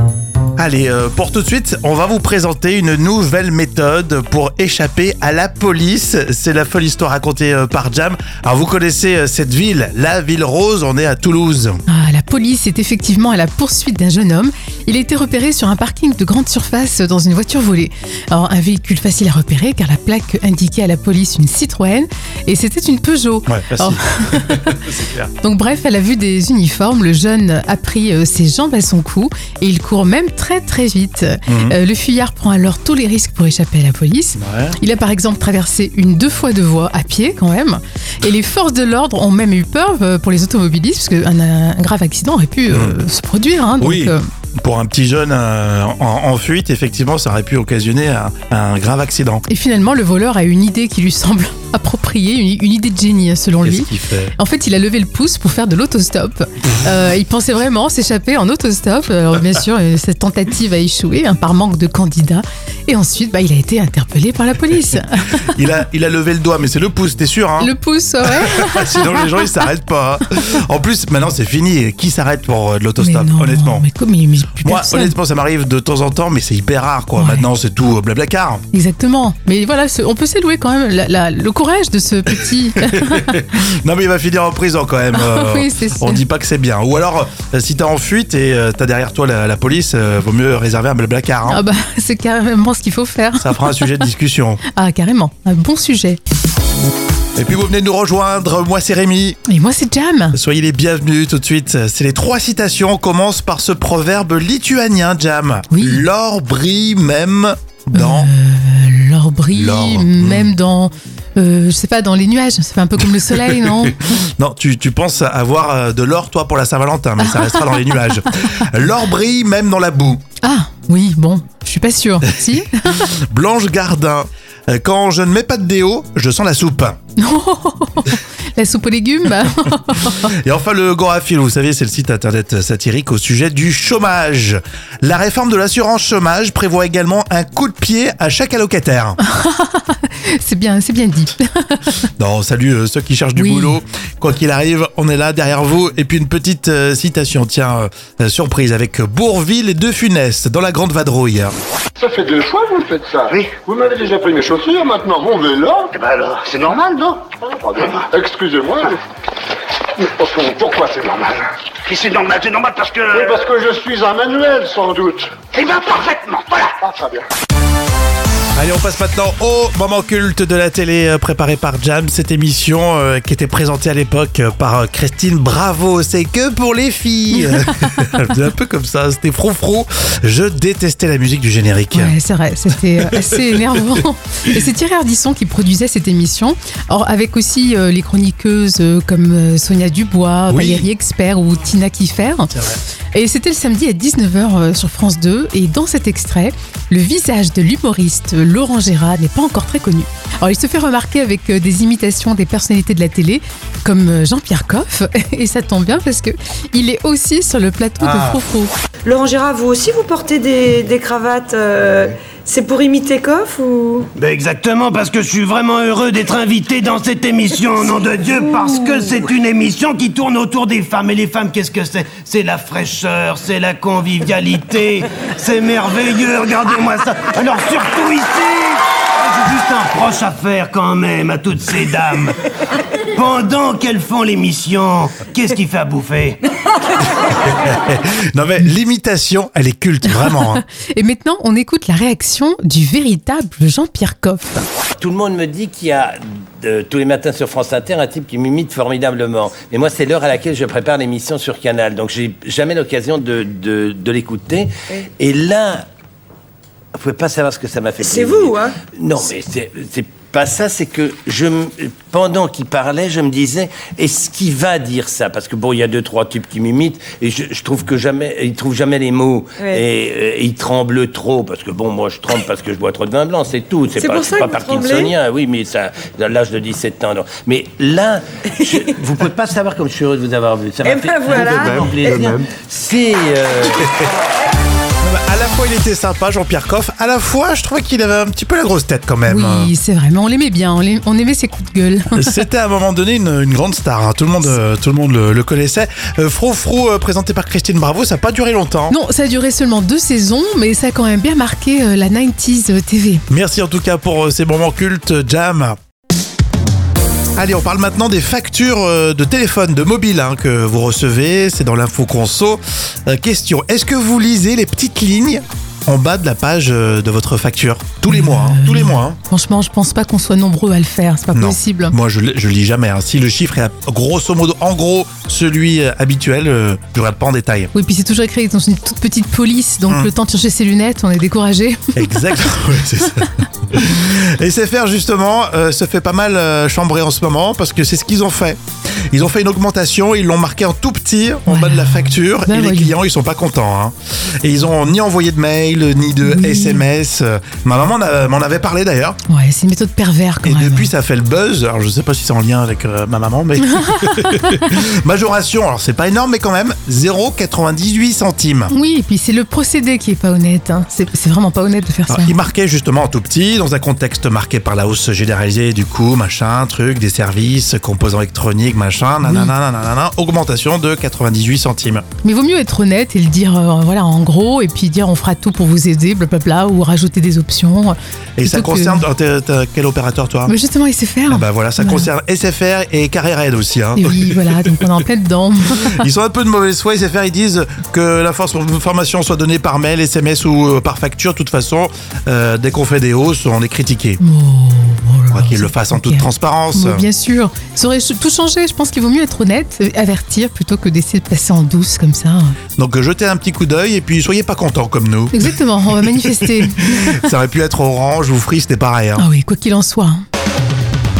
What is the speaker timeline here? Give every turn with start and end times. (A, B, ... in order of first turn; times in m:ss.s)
0:00.6-0:11.8 A
0:11.9-0:24.8 B
0:23.5-0:25.3 A
0:25.4-0:44.2 B
0:31.5-0:31.7 A
0:34.4-0:34.8 A
0:42.7-0:43.0 A
0:43.8-0:49.4 A
0:49.5-1:05.5 B
0:53.6-0:54.3 A
1:05.4-1:07.7 A
1:07.6-1:09.7 B
1:08.2-1:13.9 A
1:13.0-1:15.1 B
1:14.6-1:18.6 A
1:17.2-1:17.5 B
1:18.7-1:23.4 B
1:22.8-1:31.6 A
1:25.1-1:26.2 B
1:31.5-1:33.9 B
1:33.4-1:34.6 A
1:34.7-1:36.2 B
1:37.4-1:39.4 A
1:39.5-1:40.4 B
1:40.3-1:48.3 A
1:45.7-1:46.0 B
1:47.9-1:54.1 B
1:49.5-1:50.5 A
1:53.3-2:00.2 A
1:57.2-1:58.0 B
2:00.4-2:03.0 B
2:03.0-2:07.0 A
2:07.2-2:10.3 B
2:09.9-2:19.2 A
2:19.2-2:22.1 B
2:22.2-2:31.5 A
2:23.4-2:23.8 B
2:32.0-2:36.0 C
2:36.1-2:37.1 D
2:37.6-2:39.0 C
2:40.0-2:41.4 C
2:41.9-2:42.9 D
2:43.0-2:45.9 C
2:46.6-2:47.2 C
2:48.5-3:02.1 A
3:01.9-3:12.5 B
3:10.5-3:10.9 A
3:13.1-3:28.7 B
3:29.0-3:34.1 E
3:34.2-3:52.4 F
3:53.0-3:56.4 F
3:57.3-4:00.6 A
4:00.1-4:04.6 B
4:05.0-4:15.8 G
4:17.0-4:43.9 G
4:18.0-4:18.8 E
4:34.0-4:35.1 E
4:40.8-4:41.9 E
4:41.5-4:41.9 F
4:45.0-4:49.7 A
4:49.3-4:52.4 B
4:52.1-4:59.0 A
4:58.9-5:03.2 B
5:03.3-5:05.8 A
5:07.4-5:19.2 A
5:18.1-5:21.9 B
5:21.3-5:27.7 A
5:27.7-5:32.0 B
5:31.9-5:38.6 A
5:39.1-5:49.2 A
5:41.5-5:42.9 B
5:46.2-5:46.8 B
5:49.3-5:50.9 B
5:50.4-5:58.7 A
5:53.8-5:54.6 B
5:58.7-6:02.3 B
6:02.1-6:12.0 A
6:09.2-6:09.5 B
6:12.2-6:19.0 B
6:18.4-6:20.5 A
6:20.5-6:22.1 B
6:21.3-6:24.4 A
6:24.0-6:26.1 B
6:25.8-6:34.2 A
6:34.2-6:42.6 B
6:35.3-6:37.0 A
6:42.8-6:49.2 A
6:45.3-6:47.3 B
6:49.2-6:50.2 B